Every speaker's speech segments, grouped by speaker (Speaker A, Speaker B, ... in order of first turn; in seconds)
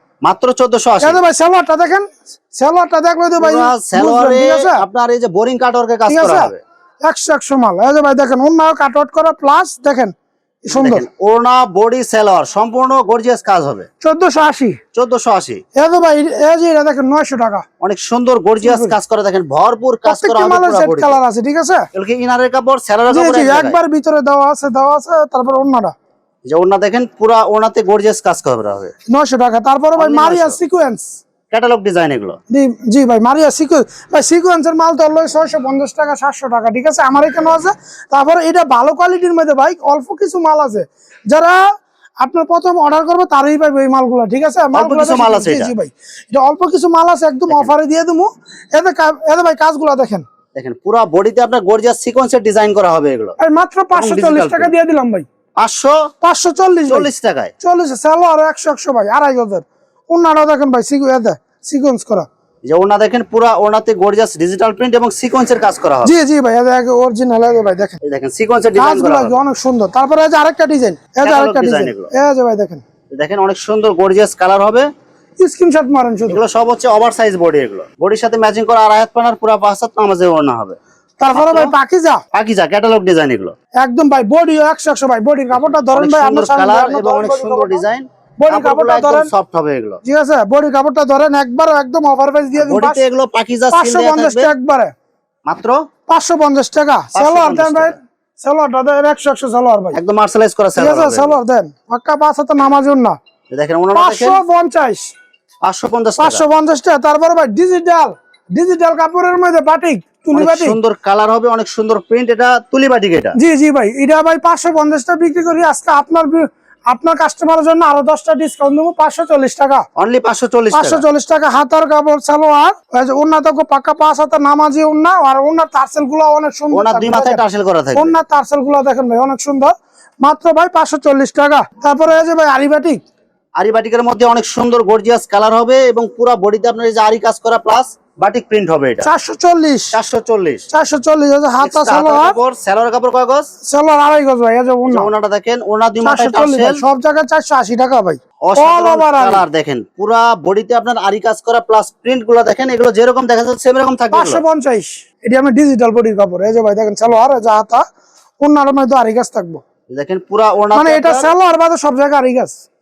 Speaker A: 0.2-1.2, 3.4-6.6, 10.7-13.9, 14.9-15.6, 17.8-21.2, 21.9-23.8, 26.4-28.9, 29.9-30.6, 31.5-32.4, 44.7-45.7, 47.5-47.7, 50.5-53.4, 53.9-54.7, 55.6-56.0, 56.9-57.5, 62.7-66.1, 68.0-69.4, 71.2-72.1, 73.1-74.9, 76.3-80.8, 81.3-81.7, 82.3-83.5, 85.6-90.0, 92.6-94.5, 95.5-95.8, 97.1-98.0, 99.9-101.4, 103.5-104.4, 105.6-106.4, 110.3-113.4, 120.0-121.0, 126.7-128.2, 133.6-139.1, 139.9-140.7, 141.6-143.5, 144.8-146.8, 148.4-154.4, 159.9-161.3
Speaker B: 1.0-4.8, 6.1-6.5, 7.0-11.1, 14.0-14.8, 15.8-17.6, 18.6-18.9, 20.1-21.9, 23.1-25.9, 29.1-31.1, 32.5-41.6, 42.2-50.2, 53.4-55.2, 56.2-57.1, 57.6-62.3, 66.0-68.0, 68.8-72.8, 75.4-76.4, 81.2-82.2, 83.8-87.8, 88.4-89.3, 90.0-93.0, 93.7-94.9, 96.1-100.0, 100.8-103.2, 103.9-105.1, 106.2-110.8, 113.3-119.8, 120.7-127.4, 127.9-133.0, 139.0-139.9, 140.7-142.4, 143.7-145.1, 146.0-149.4, 154.1-157.8, 158.4-159.6, 160.7-162.6